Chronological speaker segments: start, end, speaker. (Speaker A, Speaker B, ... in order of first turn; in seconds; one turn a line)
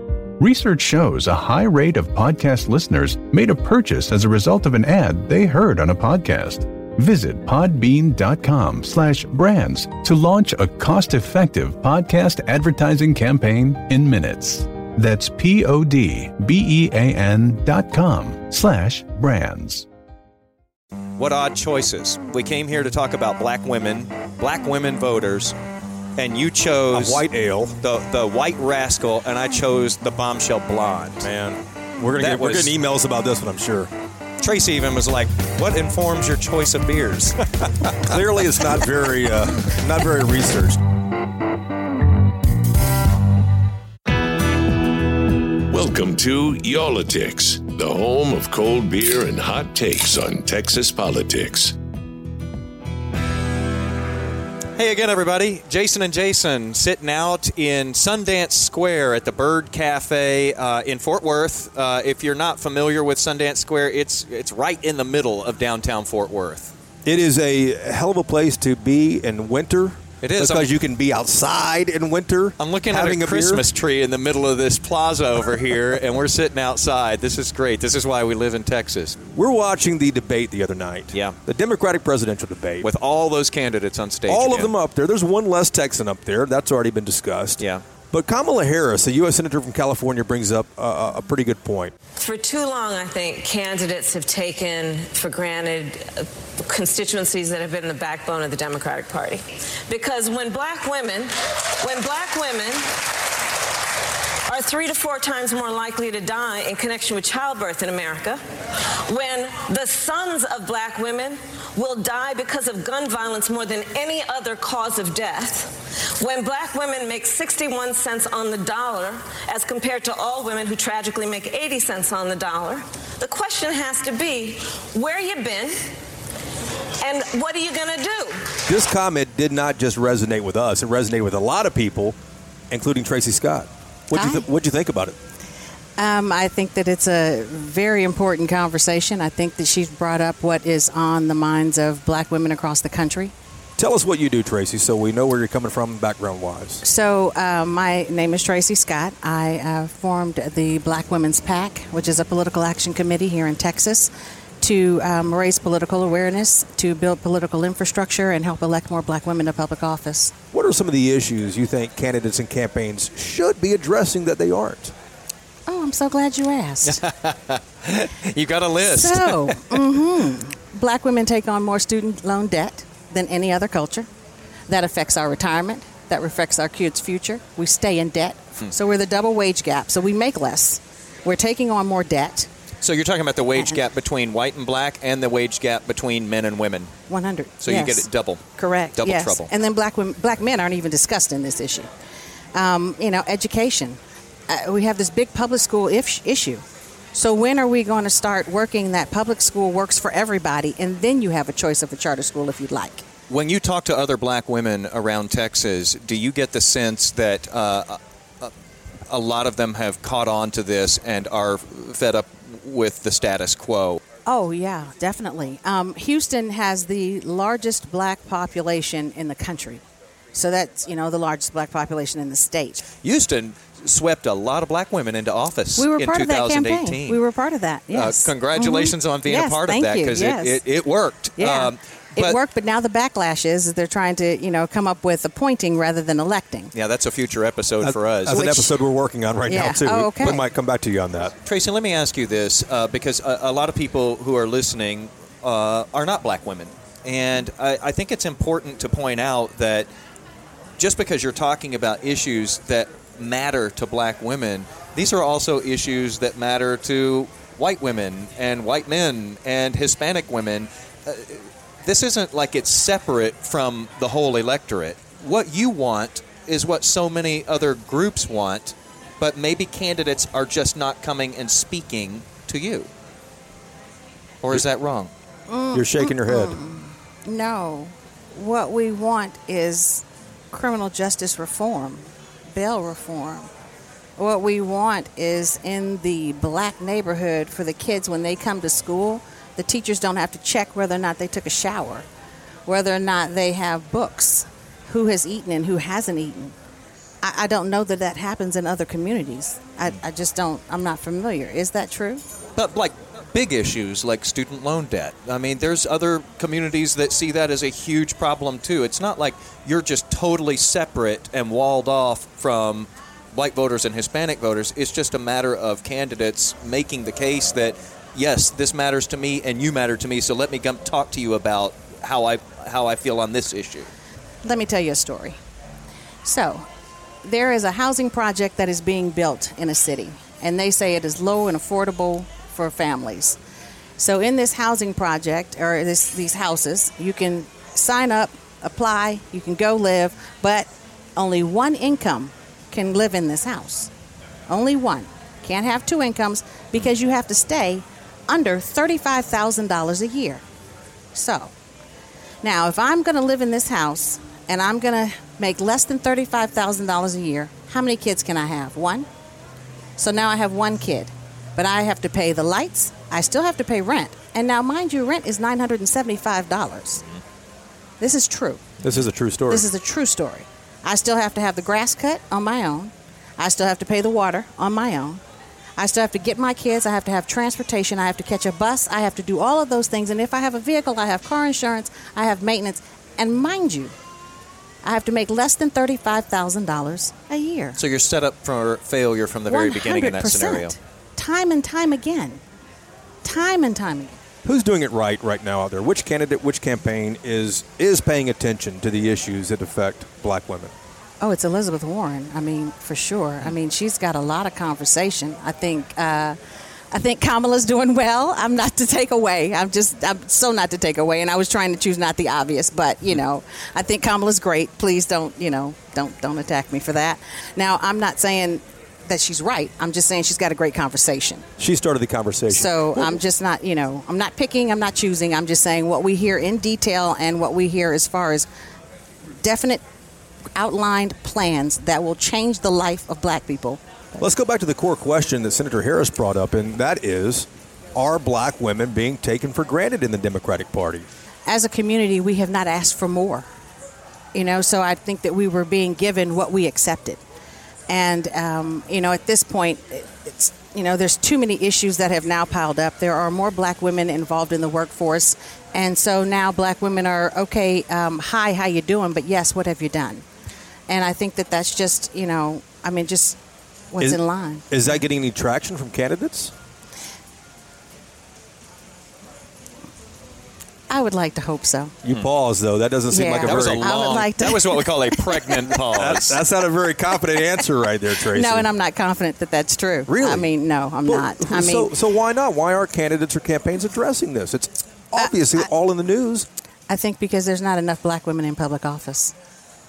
Speaker A: 0.4-19.9
Speaker B: 21.2-25.6
Speaker B: 26.2-27.2
Speaker C: 26.9-27.8
Speaker B: 27.8-31.3
Speaker C: 31.2-33.9
Speaker B: 32.2-32.7
Speaker B: 34.4-38.1
Speaker C: 38.0-40.8
Speaker D: 45.7-51.8
Speaker B: 54.8-66.7
Speaker C: 67.0-73.7
Speaker B: 70.2-70.7
Speaker B: 72.6-79.2
Speaker C: 79.3-82.9
Speaker B: 82.8-84.7
Speaker C: 84.3-91.9
Speaker E: 92.2-103.0
Speaker E: 104.5-125.9
Speaker E: 127.0-128.6
Speaker C: 128.7-132.2
Speaker C: 132.7-135.2
Speaker F: 134.1-134.5
Speaker F: 136.0-143.3
Speaker C: 143.8-146.8
Speaker F: 146.8-154.1
Speaker F: 154.6-160.3
Speaker C: 160.5-164.9
Speaker F: 165.7-167.0
Speaker B: 166.8-169.9
Speaker F: 168.8-174.1
Speaker F: 174.7-182.5
Speaker B: 182.8-186.9
Speaker F: 183.5-183.8
Speaker F: 187.1-191.9
Speaker B: 187.6-189.5
Speaker F: 192.5-203.0
Speaker B: 203.3-208.5
Speaker B: 209.1-214.0
Speaker F: 214.2-222.8
Speaker B: 223.0-227.2
Speaker F: 225.8-230.6
Speaker B: 227.9-232.4
Speaker F: 231.4-236.7
Speaker B: 236.7-238.6
Speaker C: 237.8-241.3
Speaker F: 238.3-238.7
Speaker F: 239.5-240.4
Speaker B: 241.4-249.9
Speaker B: 250.8-272.9
Speaker B: 274.4-275.1
Speaker F: 275.5-283.5
Speaker C: 275.7-276.6
Speaker F: 284.2-292.1
Speaker F: 292.7-296.5
Speaker F: 297.2-302.2
Speaker B: 302.6-323.9
Speaker F: 324.4-325.4
Speaker F: 326.2-326.6
Speaker F: 327.2-333.4
Speaker F: 334.0-343.9
Speaker F: 344.5-350.4
Speaker F: 351.1-351.5
Speaker F: 352.4-359.1
Speaker F: 360.0-367.0
Speaker F: 368.0-368.6
Speaker C: 368.8-369.7
Speaker F: 369.5-375.2
Speaker F: 375.8-383.9
Speaker F: 384.8-387.8
Speaker B: 387.8-390.7
Speaker F: 389.5-392.4
Speaker F: 393.2-394.2
Speaker C: 394.4-400.7
Speaker F: 401.2-406.4
Speaker F: 406.9-421.5
Speaker C: 421.6-423.2
Speaker F: 422.5-428.5
Speaker F: 429.4-429.8
Speaker F: 430.5-434.2
Speaker C: 434.2-441.1
Speaker F: 441.4-443.4
Speaker F: 444.3-447.2
Speaker F: 447.9-460.2
Speaker F: 460.9-463.4
Speaker F: 463.9-465.0
Speaker C: 464.7-466.5
Speaker F: 470.9-471.9
Speaker C: 472.0-474.2
Speaker F: 473.1-475.8
Speaker B: 473.4-476.4
Speaker C: 475.9-478.7
Speaker F: 478.3-481.9
Speaker C: 480.1-480.5
Speaker C: 481.1-486.5
Speaker F: 486.9-489.3